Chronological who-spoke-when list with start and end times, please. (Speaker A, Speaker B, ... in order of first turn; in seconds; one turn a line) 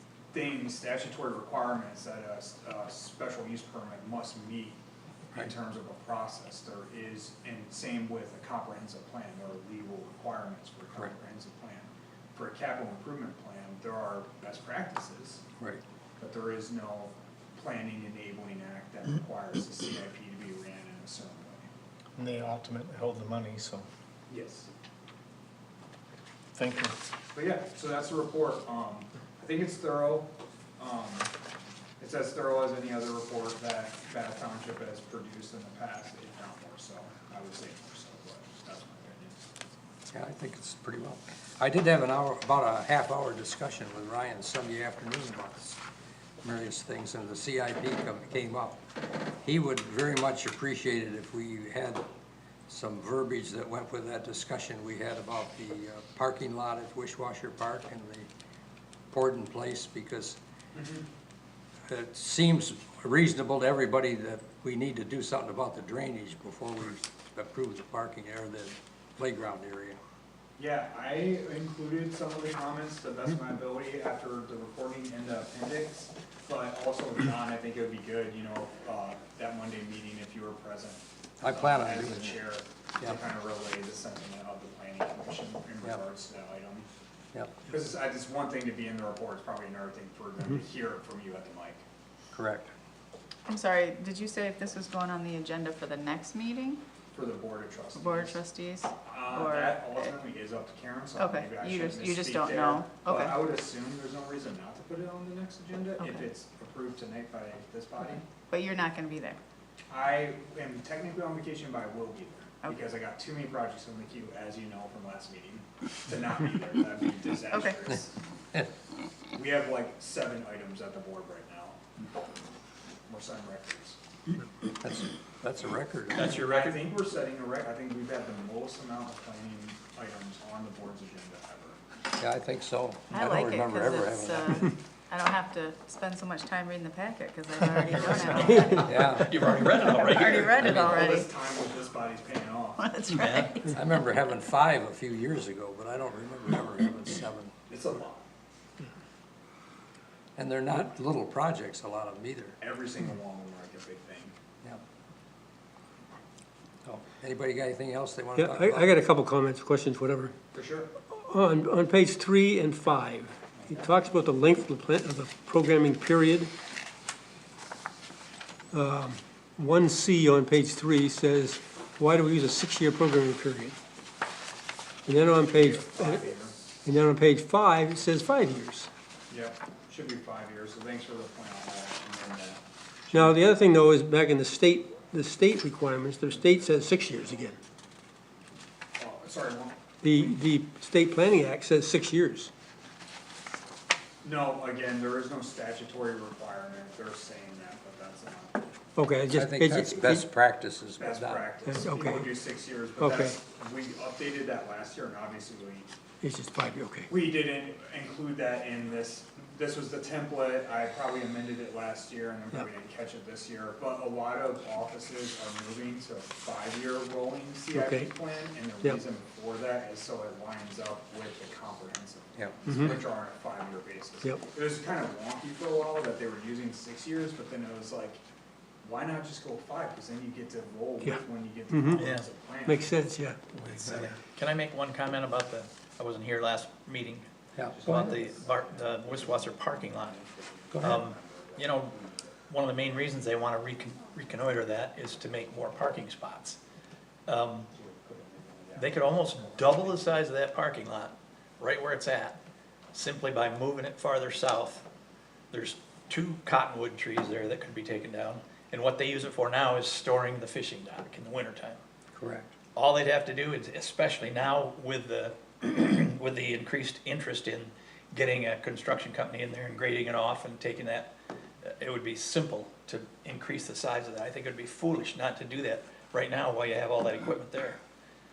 Speaker A: 0.3-4.8
Speaker A: 5.3-15.4
Speaker A: 16.2-21.7
Speaker B: 22.2-23.9
Speaker A: 24.3-24.7
Speaker B: 26.6-26.9
Speaker A: 27.3-31.3
Speaker A: 32.0-39.4
Speaker C: 40.1-45.8
Speaker C: 46.4-48.8
Speaker C: 49.4-52.0
Speaker C: 52.7-58.3
Speaker C: 59.1-60.4
Speaker A: 60.7-61.1
Speaker C: 61.9-70.0
Speaker A: 70.6-86.9
Speaker C: 81.4-82.5
Speaker C: 87.3-87.6
Speaker A: 87.7-91.8
Speaker C: 92.3-92.7
Speaker D: 93.5-96.8
Speaker A: 97.1-98.4
Speaker D: 98.0-100.1
Speaker A: 99.1-108.2
Speaker D: 101.2-103.4
Speaker D: 106.0-106.3
Speaker D: 108.5-109.4
Speaker A: 109.9-118.2
Speaker D: 117.5-117.8
Speaker A: 119.3-121.8
Speaker A: 123.1-124.0
Speaker C: 124.8-126.4
Speaker E: 126.1-126.9
Speaker A: 126.4-131.8
Speaker C: 132.2-134.7
Speaker D: 133.1-138.9
Speaker E: 138.0-141.0
Speaker A: 138.3-138.8
Speaker C: 138.8-139.3
Speaker D: 139.8-141.3
Speaker A: 140.3-142.9
Speaker D: 142.8-143.8
Speaker E: 143.1-143.5
Speaker C: 143.7-147.5
Speaker A: 147.7-148.3
Speaker C: 150.4-152.6
Speaker A: 152.6-154.4
Speaker C: 156.8-159.0
Speaker F: 158.4-160.3
Speaker A: 160.5-160.9
Speaker F: 161.1-166.5
Speaker A: 163.6-163.9
Speaker F: 168.7-173.8
Speaker F: 175.1-176.3
Speaker A: 175.2-176.7
Speaker F: 176.8-178.9
Speaker A: 179.3-182.6
Speaker F: 183.1-187.6
Speaker A: 189.0-190.3
Speaker F: 190.0-192.5
Speaker A: 194.2-198.7
Speaker F: 199.0-200.2
Speaker C: 199.3-201.5
Speaker A: 201.0-205.9
Speaker F: 201.7-202.4
Speaker F: 203.0-203.3
Speaker F: 206.2-207.1
Speaker A: 207.1-228.2
Speaker F: 217.7-218.1
Speaker C: 222.4-223.0
Speaker F: 222.7-222.9
Speaker A: 228.8-233.0
Speaker F: 231.0-232.0
Speaker E: 232.0-232.3
Speaker F: 232.7-233.5
Speaker E: 233.6-237.3
Speaker C: 237.6-238.2
Speaker A: 237.7-243.2
Speaker E: 237.8-240.2
Speaker C: 240.7-241.0
Speaker E: 240.8-241.9
Speaker E: 242.5-246.6
Speaker E: 247.3-247.7
Speaker A: 247.7-250.2
Speaker E: 248.8-252.4
Speaker E: 252.9-254.8
Speaker E: 255.5-261.8
Speaker C: 262.1-262.5
Speaker E: 262.8-271.1
Speaker E: 271.6-277.8